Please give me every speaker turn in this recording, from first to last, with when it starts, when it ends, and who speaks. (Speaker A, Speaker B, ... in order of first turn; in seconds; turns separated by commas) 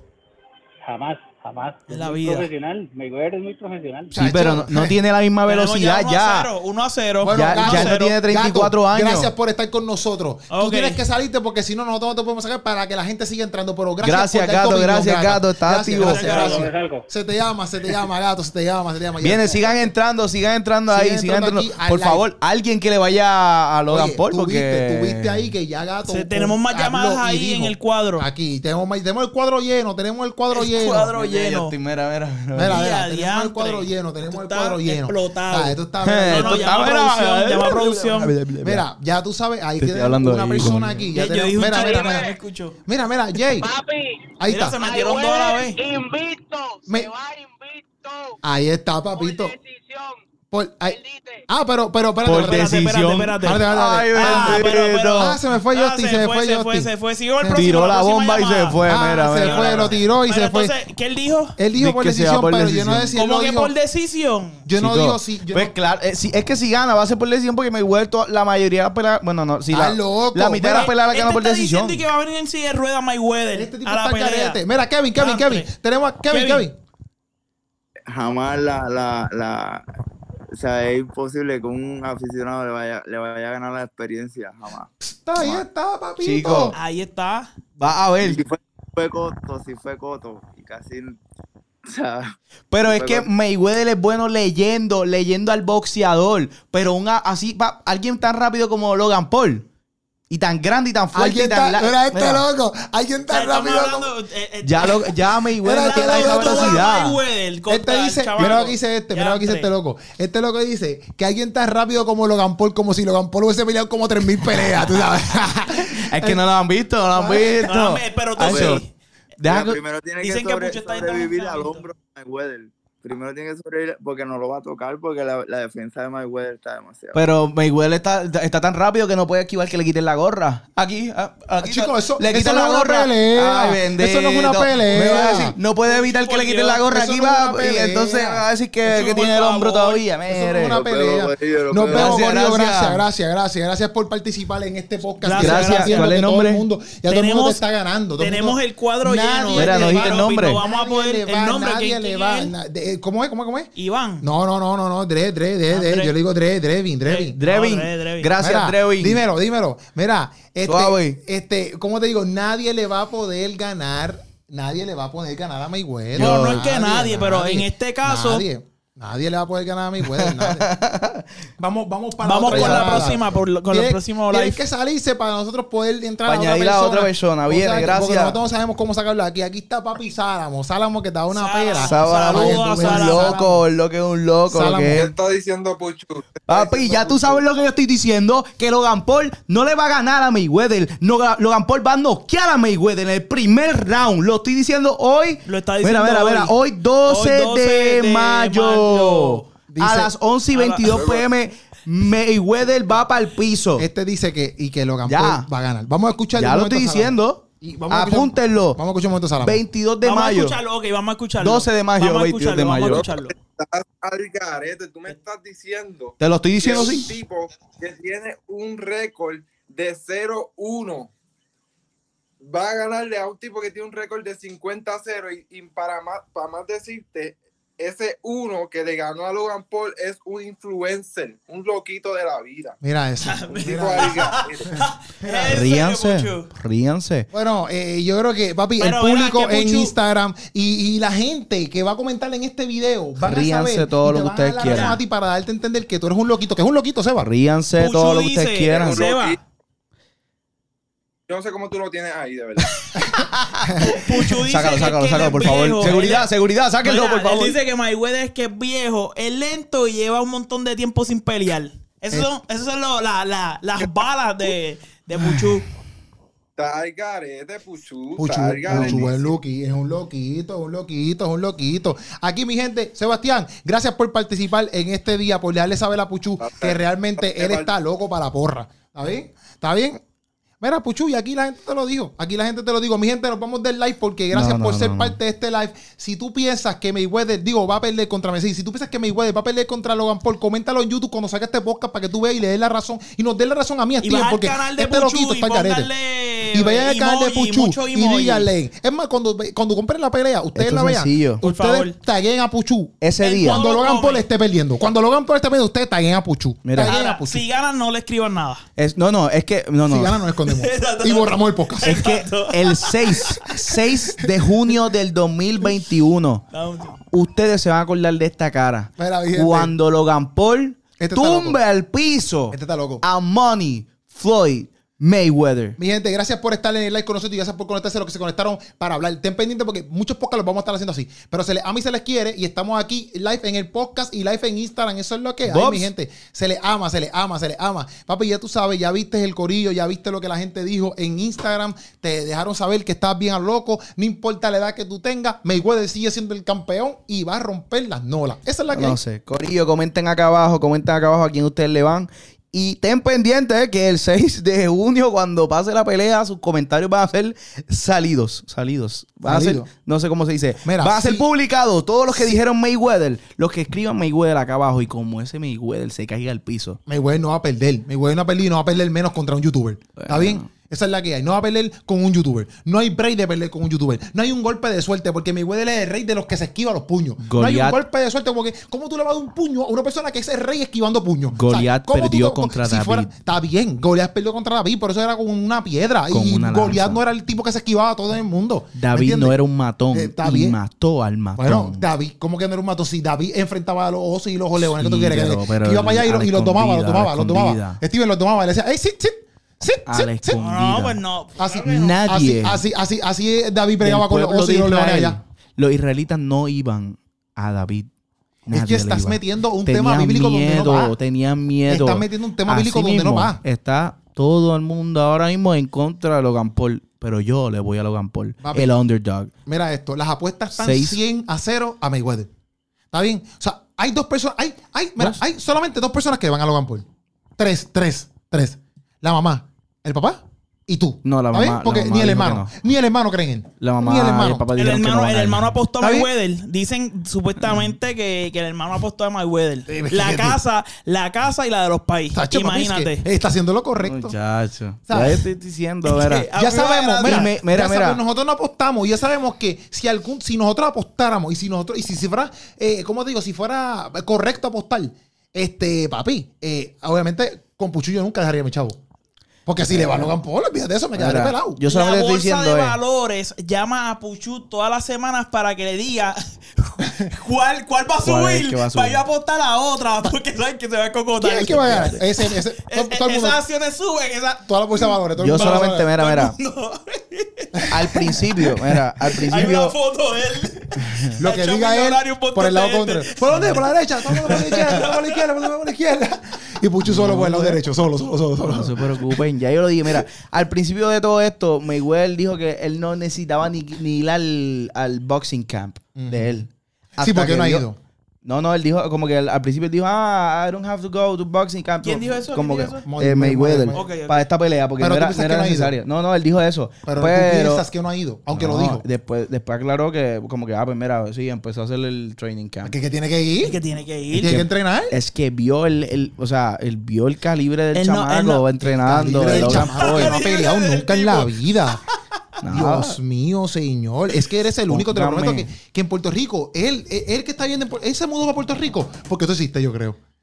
Speaker A: 0.8-4.1, Speaker B: 1.9-2.5, Speaker C: 4.1-5.0, Speaker D: 4.1-6.5, Speaker B: 5.5-8.2, Speaker C: 7.2-19.7, Speaker D: 7.3-9.3, Speaker B: 10.5-11.0, Speaker D: 14.0-16.6, Speaker B: 16.0-16.7, Speaker A: 16.3-17.1, Speaker D: 19.2-25.5, Speaker C: 20.9-22.3, Speaker C: 23.9-31.1, Speaker B: 26.1-28.2, Speaker B: 30.5-31.7, Speaker D: 31.1-32.8, Speaker C: 32.5-36.9, Speaker B: 32.7-35.8, Speaker D: 36.0-38.8, Speaker B: 36.3-38.3, Speaker C: 38.6-42.3, Speaker D: 39.8-41.1, Speaker B: 41.1-42.8, Speaker E: 41.9-42.4, Speaker C: 42.9-43.7, Speaker E: 43.5-48.4, Speaker C: 44.4-44.8, Speaker B: 44.5-45.8, Speaker C: 48.4-49.5, Speaker E: 49.1-50.2, Speaker C: 50.5-51.0, Speaker E: 50.8-51.5, Speaker C: 51.5-57.7, Speaker D: 52.2-55.4, Speaker B: 52.3-61.6, Speaker D: 57.5-60.0, Speaker C: 58.9-60.7, Speaker C: 61.6-63.7, Speaker D: 61.7-63.1, Speaker B: 63.1-64.6, Speaker C: 64.6-65.7, Speaker D: 64.8-72.0, Speaker C: 69.7-70.9, Speaker B: 70.6-74.6, Speaker C: 73.5-76.7, Speaker B: 75.2-75.7, Speaker B: 76.3-76.7, Speaker F: 78.1-79.8, Speaker F: 80.5-84.9, Speaker C: 85.0-86.8, Speaker D: 86.2-86.8, Speaker B: 86.7-87.5, Speaker D: 87.8-88.4, Speaker F: 88.2-91.2, Speaker F: 91.8-92.3, Speaker D: 92.7-99.7, Speaker F: 92.8-93.3, Speaker D: 100.3-102.4, Speaker C: 101.1-104.1, Speaker B: 103.3-109.7, Speaker D: 104.6-107.2, Speaker C: 105.6-106.8, Speaker C: 107.7-116.4, Speaker D: 115.9-118.8, Speaker C: 117.1-117.6, Speaker B: 117.6-118.9, Speaker F: 118.4-118.8, Speaker D: 119.4-119.8, Speaker F: 119.4-127.2, Speaker B: 120.2-121.8, Speaker D: 127.1-140.8, Speaker C: 131.6-135.6, Speaker B: 135.8-136.8, Speaker C: 136.8-138.4, Speaker B: 138.8-140.0, Speaker C: 140.3-153.7, Speaker F: 140.7-142.2, Speaker D: 141.9-143.0, Speaker B: 145.2-146.1, Speaker D: 145.3-146.7, Speaker B: 147.1-147.6, Speaker B: 148.2-152.5, Speaker D: 149.5-150.6, Speaker B: 153.8-154.2, Speaker C: 154.2-157.4, Speaker B: 155.7-156.1, Speaker B: 157.1-158.3, Speaker D: 157.3-159.2, Speaker C: 158.4-170.7, Speaker D: 160.6-161.2, Speaker D: 166.1-166.7, Speaker B: 166.2-168.4, Speaker D: 170.0-171.2, Speaker C: 171.6-183.6, Speaker B: 172.2-174.6, Speaker D: 172.4-173.2, Speaker D: 176.2-178.4, Speaker B: 181.3-183.4, Speaker D: 181.8-185.1, Speaker C: 184.5-185.1, Speaker G: 184.9-187.5, Speaker D: 186.5-203.9, Speaker B: 195.5-199.5, Speaker C: 199.7-200.1, Speaker B: 200.5-201.1, Speaker G: 200.9-201.2, Speaker C: 203.8-209.6, Speaker D: 205.0-205.5, Speaker D: 206.3-208.8, Speaker D: 209.4-210.6, Speaker B: 210.0-213.3, Speaker D: 211.4-213.1, Speaker G: 212.9-221.1, Speaker D: 216.2-217.1, Speaker G: 222.4-232.8, Speaker C: 232.8-235.5, Speaker B: 233.2-236.5, Speaker G: 233.6-234.7, Speaker D: 235.4-237.3, Speaker C: 237.3-247.3, Speaker B: 238.8-239.9, Speaker D: 243.2-245.0, Speaker B: 244.6-245.0, Speaker D: 247.2-249.0, Speaker B: 247.8-249.4, Speaker G: 248.7-249.4, Speaker G: 251.3-252.7, Speaker D: 253.1-257.6, Speaker C: 253.6-254.0, Speaker B: 253.8-256.3, Speaker B: 256.8-265.6, Speaker G: 266.6-269.3, Speaker C: 268.2-280.0, Speaker D: 268.7-269.1, Speaker G: 276.4-277.7, Speaker C: 280.6-295.9, Speaker D: 284.3-285.2, Speaker B: 294.0-298.5, Speaker C: 296.5-307.4, Speaker D: 300.5-301.4, Speaker B: 301.4-301.9, Speaker D: 303.0-303.6, Speaker B: 303.2-304.2, Speaker D: 306.6-307.0, Speaker B: 306.8-308.6, Speaker D: 308.8-310.2, Speaker C: 309.9-312.0, Speaker B: 310.4-313.5, Speaker D: 311.8-316.4, Speaker B: 316.5-317.0, Speaker D: 317.1-325.8, Speaker C: 319.0-319.7, Speaker C: 321.0-321.6, Speaker C: 322.5-323.0, Speaker C: 325.8-349.0, Speaker D: 335.4-335.9, Speaker D: 348.7-366.8, Speaker C: 359.2-359.7, Speaker C: 360.6-361.3, Speaker C: 366.9-389.4, Speaker D: 370.0-370.5, Speaker D: 377.2-377.8, Speaker D: 381.3-383.1, Speaker D: 386.1-387.0, Speaker D: 388.7-391.9, Speaker C: 389.9-390.6, Speaker C: 391.4-400.4, Speaker D: 394.6-397.8, Speaker D: 399.9-401.0, Speaker B: 400.4-402.0, Speaker C: 401.4-405.2, Speaker D: 401.7-402.6, Speaker D: 403.8-407.9, Speaker D: 408.5-419.3, Speaker C: 408.5-410.9, Speaker C: 411.7-413.4, Speaker C: 418.4-418.7, Speaker C: 419.4-422.3, Speaker D: 420.5-421.0, Speaker C: 422.9-426.8, Speaker C: 427.4-434.5, Speaker D: 431.0-432.5, Speaker D: 433.6-435.5, Speaker B: 434.6-443.0, Speaker C: 435.8-436.1, Speaker D: 437.4-437.7, Speaker C: 439.7-440.4, Speaker C: 442.1-444.1, Speaker D: 443.8-446.3, Speaker C: 444.9-445.2, Speaker B: 445.8-447.3, Speaker C: 446.3-458.8, Speaker D: 447.0-448.0, Speaker C: 459.4-461.6, Speaker D: 459.7-460.1, Speaker D: 460.9-462.8, Speaker B: 461.7-478.5, Speaker C: 466.8-467.1, Speaker D: 468.0-469.0, Speaker C: 471.2-473.4, Speaker C: 474.4-475.9, Speaker D: 475.2-476.4, Speaker D: 477.7-479.8, Speaker B: 479.1-485.2, Speaker D: 480.8-481.1, Speaker C: 481.2-489.0, Speaker D: 486.8-487.6, Speaker D: 488.4-497.6, Speaker C: 495.9-496.4, Speaker C: 497.0-497.8, Speaker D: 498.2-507.6, Speaker B: 501.8-502.8, Speaker C: 502.9-503.9, Speaker B: 503.7-504.2, Speaker C: 504.8-505.7, Speaker C: 506.8-508.8, Speaker D: 508.3-512.8, Speaker C: 512.6-513.6, Speaker B: 513.4-514.4, Speaker C: 514.1-515.0, Speaker D: 514.2-520.2, Speaker B: 517.7-518.5, Speaker C: 518.7-521.8, Speaker B: 519.3-521.5, Speaker D: 522.4-523.0, Speaker C: 522.5-530.0, Speaker D: 524.7-525.5